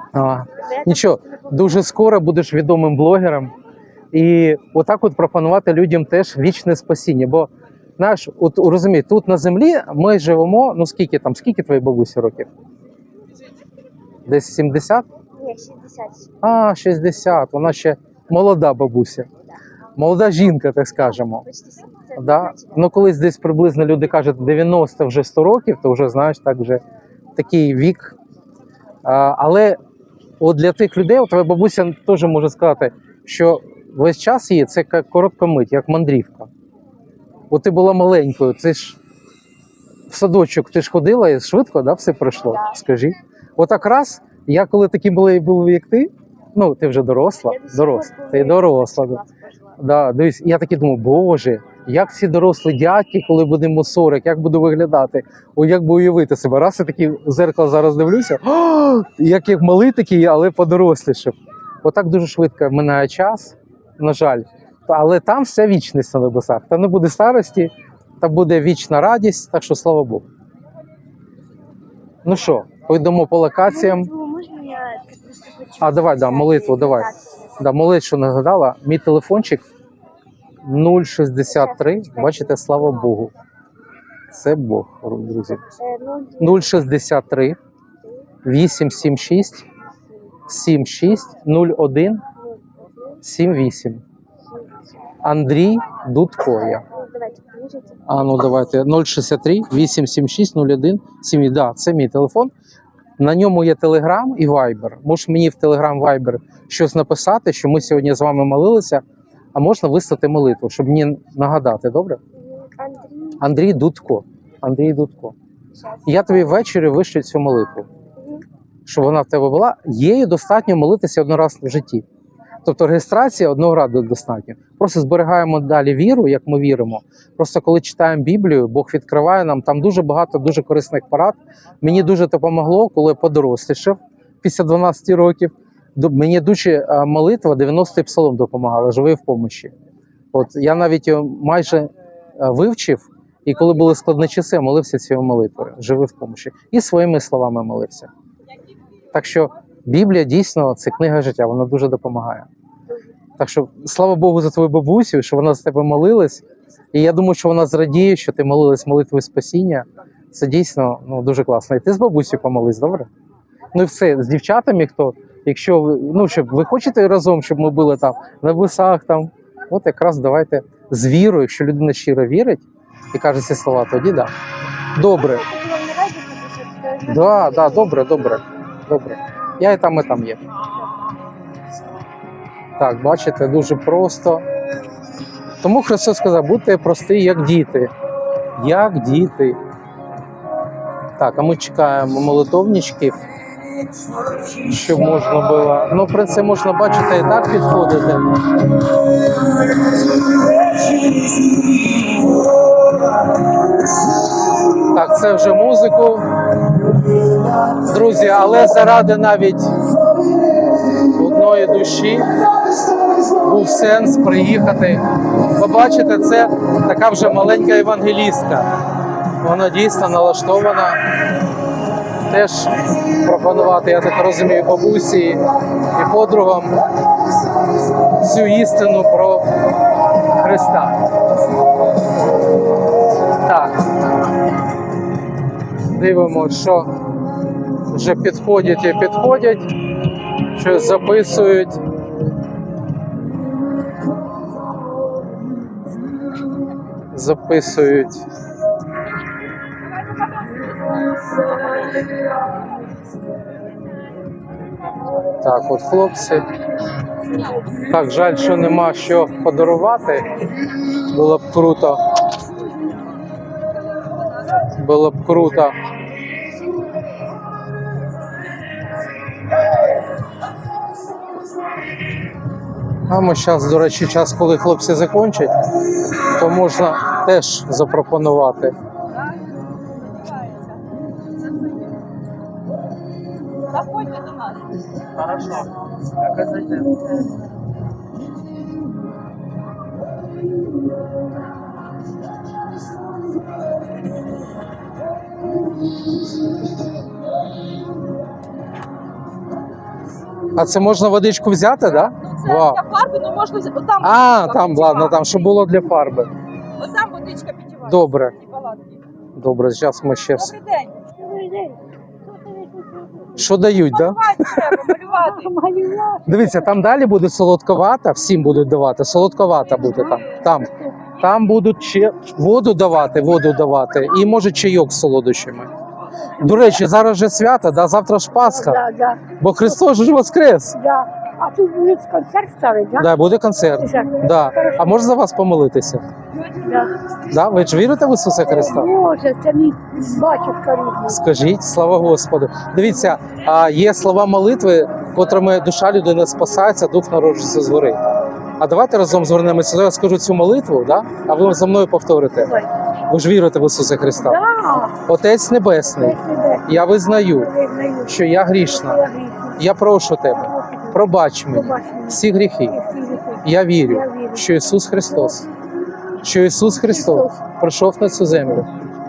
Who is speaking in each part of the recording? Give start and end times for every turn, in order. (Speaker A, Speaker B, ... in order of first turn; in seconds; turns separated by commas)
Speaker A: 0.1-3.5, Speaker B: 0.5-1.9, Speaker A: 4.1-12.5, Speaker A: 14.3-15.1, Speaker B: 15.3-16.3, Speaker A: 16.4-19.3, Speaker A: 20.0-21.4, Speaker B: 21.1-22.9, Speaker A: 22.2-26.8, Speaker A: 27.4-28.1, Speaker A: 29.0-29.8, Speaker A: 30.4-36.5, Speaker A: 37.5-39.0, Speaker A: 40.1-49.2, Speaker B: 42.5-42.8, Speaker B: 47.4-49.8, Speaker A: 49.8-70.2, Speaker A: 72.2-74.1, Speaker B: 73.6-77.6, Speaker A: 75.8-79.7, Speaker A: 80.6-83.3, Speaker B: 81.5-82.6, Speaker A: 84.3-85.6, Speaker B: 85.8-86.9, Speaker A: 86.4-87.6, Speaker B: 88.0-88.3, Speaker A: 88.4-89.7, Speaker A: 90.5-92.2, Speaker B: 92.3-93.2, Speaker A: 93.2-94.0, Speaker B: 94.5-95.0, Speaker A: 95.2-96.8, Speaker B: 96.5-98.4, Speaker A: 98.1-102.5, Speaker A: 103.2-109.0, Speaker A: 109.5-112.2, Speaker B: 112.3-113.5, Speaker A: 113.4-115.3, Speaker B: 115.8-116.6, Speaker A: 116.1-117.9, Speaker B: 118.2-118.5, Speaker A: 118.9-122.0, Speaker A: 122.6-139.7, Speaker A: 140.3-148.1, Speaker A: 149.1-152.5, Speaker A: 153.4-163.1, Speaker A: 163.7-174.3, Speaker A: 174.9-175.4, Speaker B: 175.0-178.5, Speaker A: 177.1-180.4, Speaker A: 182.8-184.4, Speaker A: 185.6-187.9, Speaker A: 188.6-189.6, Speaker A: 191.2-193.2, Speaker A: 194.5-198.4, Speaker A: 204.8-206.3, Speaker A: 207.6-209.9, Speaker A: 211.1-212.5, Speaker A: 213.2-218.7, Speaker A: 219.4-221.0, Speaker A: 222.3-226.8, Speaker A: 228.1-229.5, Speaker A: 230.3-231.0, Speaker A: 233.4-233.9, Speaker A: 235.9-236.9, Speaker A: 237.9-239.7, Speaker A: 240.5-241.8, Speaker A: 247.1-248.2, Speaker C: 249.8-252.0, Speaker A: 255.4-256.5, Speaker A: 257.8-260.5, Speaker A: 261.0-262.1, Speaker A: 264.7-265.8, Speaker A: 273.1-275.5, Speaker A: 276.1-278.8, Speaker C: 279.1-281.9, Speaker C: 283.6-284.7, Speaker C: 286.4-286.9, Speaker A: 300.5-302.8, Speaker C: 301.9-305.6, Speaker A: 304.0-306.3, Speaker C: 306.8-309.0, Speaker A: 307.9-308.3, Speaker A: 309.4-310.5, Speaker C: 310.4-311.0, Speaker D: 311.2-313.5, Speaker A: 313.4-314.8, Speaker C: 313.9-315.5, Speaker D: 315.2-316.7, Speaker A: 316.3-325.7, Speaker D: 319.8-321.0, Speaker D: 326.3-326.8, Speaker A: 326.4-328.8, Speaker D: 328.3-329.8, Speaker A: 329.4-330.8, Speaker D: 330.7-333.1, Speaker A: 333.0-336.1, Speaker D: 333.8-335.1, Speaker C: 336.3-337.0, Speaker D: 336.6-336.9, Speaker A: 337.3-338.9, Speaker D: 338.4-341.3, Speaker A: 341.1-348.0, Speaker A: 348.6-352.5, Speaker D: 352.4-352.7, Speaker A: 353.1-354.4, Speaker D: 354.2-355.0, Speaker A: 355.0-357.5, Speaker D: 355.9-359.6, Speaker A: 358.1-359.0, Speaker A: 359.6-362.8, Speaker D: 360.3-364.5, Speaker A: 363.4-365.5, Speaker D: 365.1-365.4, Speaker A: 366.2-368.7, Speaker D: 366.7-367.4